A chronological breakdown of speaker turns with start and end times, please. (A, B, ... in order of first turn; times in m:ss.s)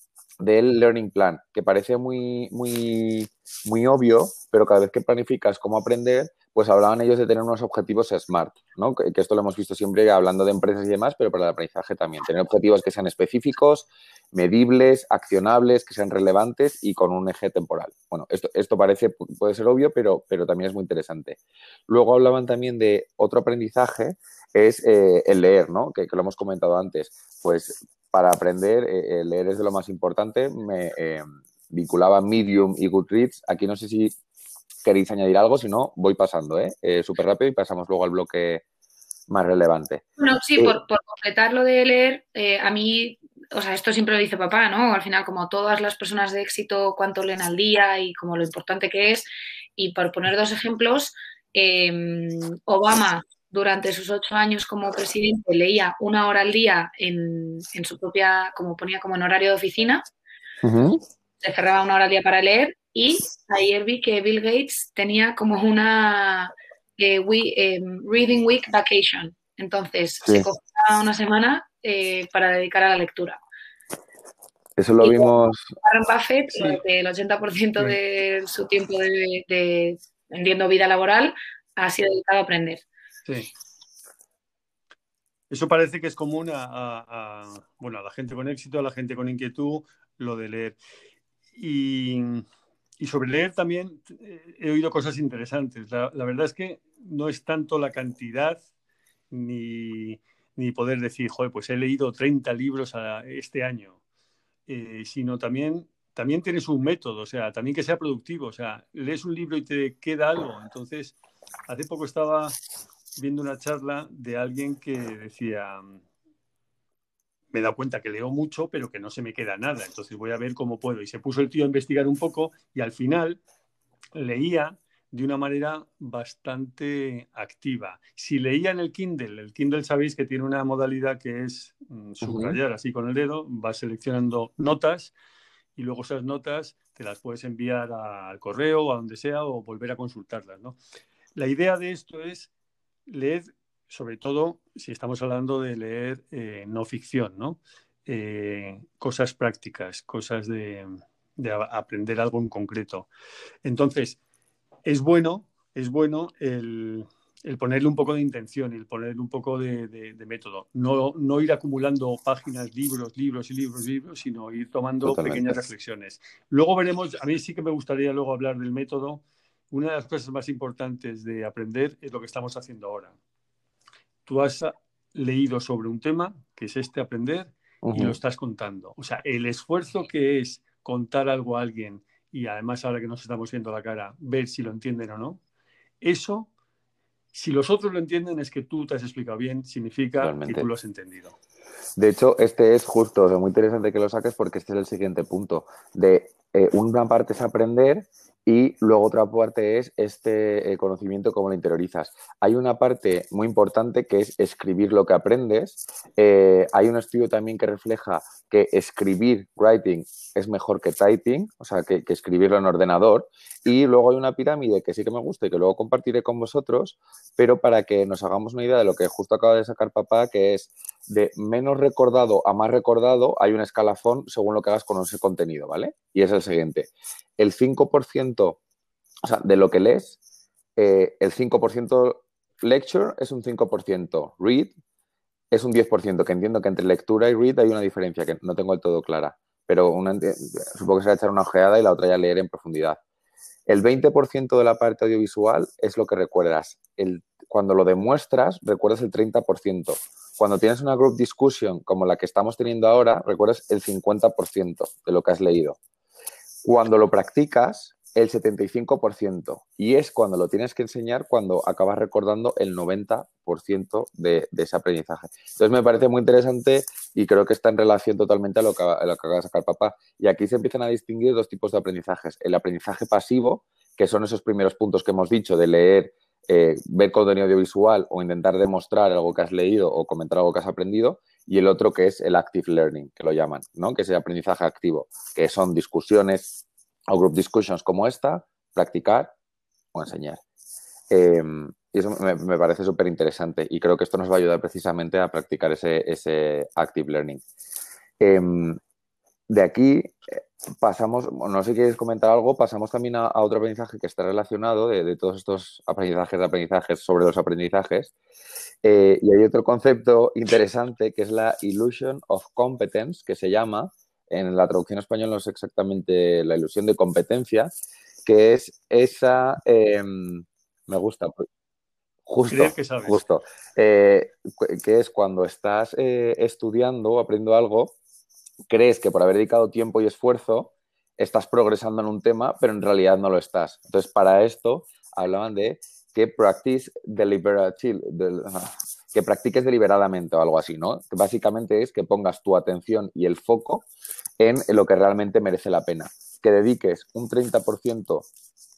0:00.4-0:34.1 A
0:34.8-0:38.6 A
0:39.3-0:40.0 A
0:40.2-0:49.2 B
0:49.8-1:00.0 B
1:00.6-1:01.0 A
1:01.4-1:13.4 B
1:14.8-1:15.6 A
1:15.0-1:22.8 B
1:25.5-1:30.8 C
1:31.6-1:32.4 C
1:33.0-1:38.6 C
1:39.3-1:44.0 C
1:44.7-1:51.1 C
1:51.7-1:52.6 C
1:53.2-1:56.0 C
1:57.5-2:03.4 C
2:04.1-2:15.1 C
2:12.2-2:12.6 A
2:15.8-2:20.8 C
2:21.3-2:22.5 C
2:23.1-2:33.1 C
2:33.6-2:34.2 C
2:34.8-2:53.2 C
2:45.0-2:45.6 A
2:54.3-3:05.4 C
2:57.8-2:58.2 A
3:06.0-3:06.5 C
3:07.3-3:11.4 C
3:10.2-3:10.7 A
3:12.0-3:48.6 A
3:49.2-3:50.2 A
3:50.8-3:54.7 A
3:55.5-4:03.0 A
4:03.7-4:15.8 A
4:16.6-4:46.5 A
4:47.1-4:49.3 A
4:49.9-4:50.4 A
4:51.1-4:57.4 A
4:58.2-4:58.8 A
4:59.5-5:08.1 A
5:08.8-5:17.7 A
5:18.2-5:21.4 A
5:22.2-5:28.0 A
5:22.5-5:23.2 C
5:28.7-5:43.8 A
5:44.4-5:48.3 A